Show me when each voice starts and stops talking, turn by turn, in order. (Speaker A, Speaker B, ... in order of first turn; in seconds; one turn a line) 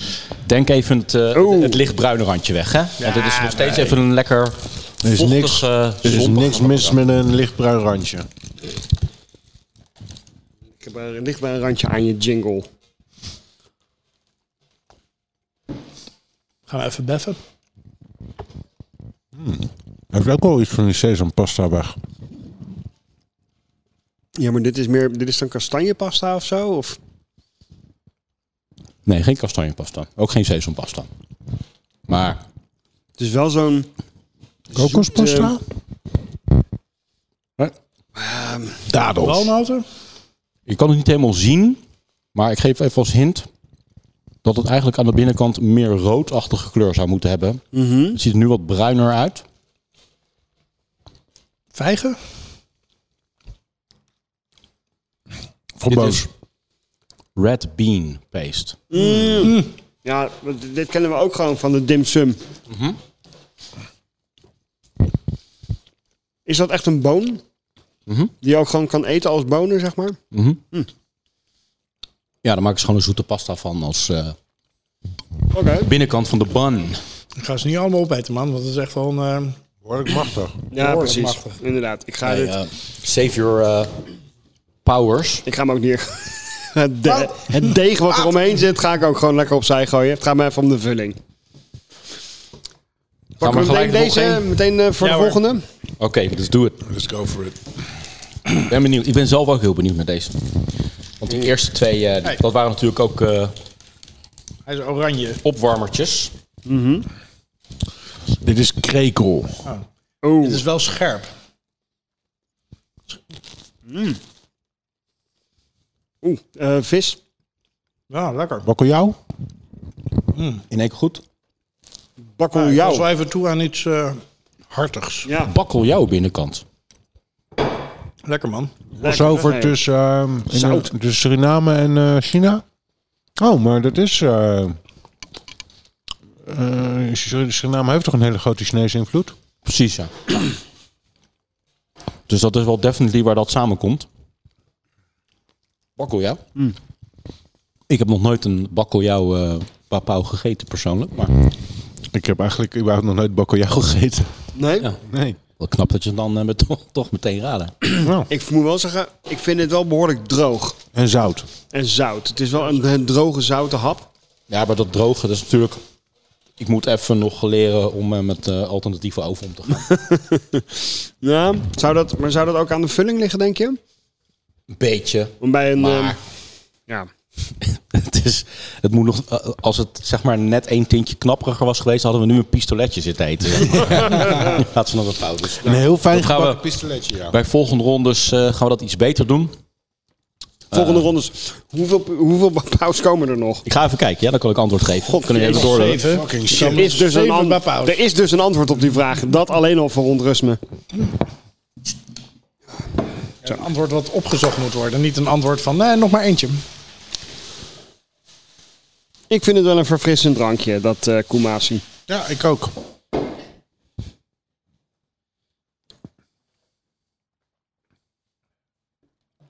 Speaker A: 0.4-7.0
Speaker B: 1.3-1.8
Speaker C: 3.0-4.0
Speaker D: 5.0-8.3
Speaker B: 10.8-12.7
Speaker C: 16.7-17.4
Speaker D: 19.4-22.0
Speaker B: 24.4-27.0
Speaker A: 29.1-31.1
Speaker A: 32.1-32.4
Speaker B: 33.2-33.9
Speaker B: 34.7-35.5
Speaker D: 34.7-35.6
Speaker B: 38.2-38.8
Speaker D: 38.9-39.5
Speaker C: 39.2-39.9
Speaker A: 40.7-41.8
Speaker A: 42.3-43.5
Speaker A: 44.4-47.6
Speaker B: 47.7-48.2
Speaker A: 48.1-49.4
Speaker C: 51.7-52.2
Speaker D: 55.8-56.3
Speaker A: 55.9-56.2
Speaker A: 57.4-58.8
Speaker B: 58.9-62.4
Speaker C: 59.4-59.7
Speaker A: 62.7-63.0
Speaker B: 66.5-67.4
Speaker A: 68.1-68.3
Speaker B: 68.4-70.2
Speaker A: 70.3-70.6
Speaker A: 72.4-74.4
Speaker B: 75.5-75.9
Speaker A: 75.8-77.0
Speaker C: 77.4-79.6
Speaker D: 79.8-80.6
Speaker B: 80.7-82.6
Speaker C: 80.8-81.6
Speaker A: 82.2-83.9
Speaker A: 84.8-85.5
Speaker B: 85.5-91.2
Speaker C: 87.1-87.3
Speaker A: 93.4-94.4
Speaker B: 93.4-95.6
Speaker C: 95.0-95.4
Speaker A: 96.0-96.8
Speaker D: 96.8-97.6
Speaker A: 98.6-100.5
Speaker A: 101.2-103.5
Speaker C: 104.7-105.4
Speaker A: 105.4-106.3
Speaker B: 106.7-107.1
Speaker D: 108.4-109.6
Speaker B: 110.2-110.6
Speaker C: 110.4-111.3
Speaker B: 113.9-114.2
Speaker B: 116.2-117.2
Speaker C: 118.1-118.7
Speaker D: 118.6-119.2
Speaker C: 120.3-120.6
Speaker A: 120.7-121.2
Speaker B: 122.4-123.1
Speaker C: 122.5-125.3
Speaker B: 125.2-125.5
Speaker A: 125.5-126.6
Speaker C: 128.2-128.7
Speaker B: 129.0-129.8
Speaker D: 129.0-132.6
Speaker B: 130.5-130.9
Speaker D: 133.4-134.8
Speaker D: 136.4-139.3
Speaker A: 139.7-140.1
Speaker A: 142.3-144.1
Speaker A: 146.0-146.4
Speaker A: 147.9-151.3
Speaker D: 152.1-154.3
Speaker B: 154.6-154.9
Speaker D: 155.0-155.4
Speaker A: 155.6-157.8
Speaker D: 158.0-158.3
Speaker B: 158.3-160.8
Speaker D: 160.9-161.5
Speaker B: 161.7-164.1
Speaker A: 164.5-165.8
Speaker A: 166.6-169.9
Speaker B: 169.9-173.8
Speaker A: 174.7-176.2
Speaker B: 175.4-176.2
Speaker A: 177.6-186.6
Speaker D: 185.6-187.3
Speaker A: 187.3-189.5
Speaker A: 190.7-191.0
Speaker B: 190.7-193.6
Speaker A: 193.7-196.0
Speaker B: 195.1-195.8
Speaker C: 195.4-198.0
Speaker D: 196.0-197.0
Speaker B: 196.7-200.6
Speaker C: 203.4-206.6
Speaker B: 209.3-211.8
Speaker D: 212.1-212.7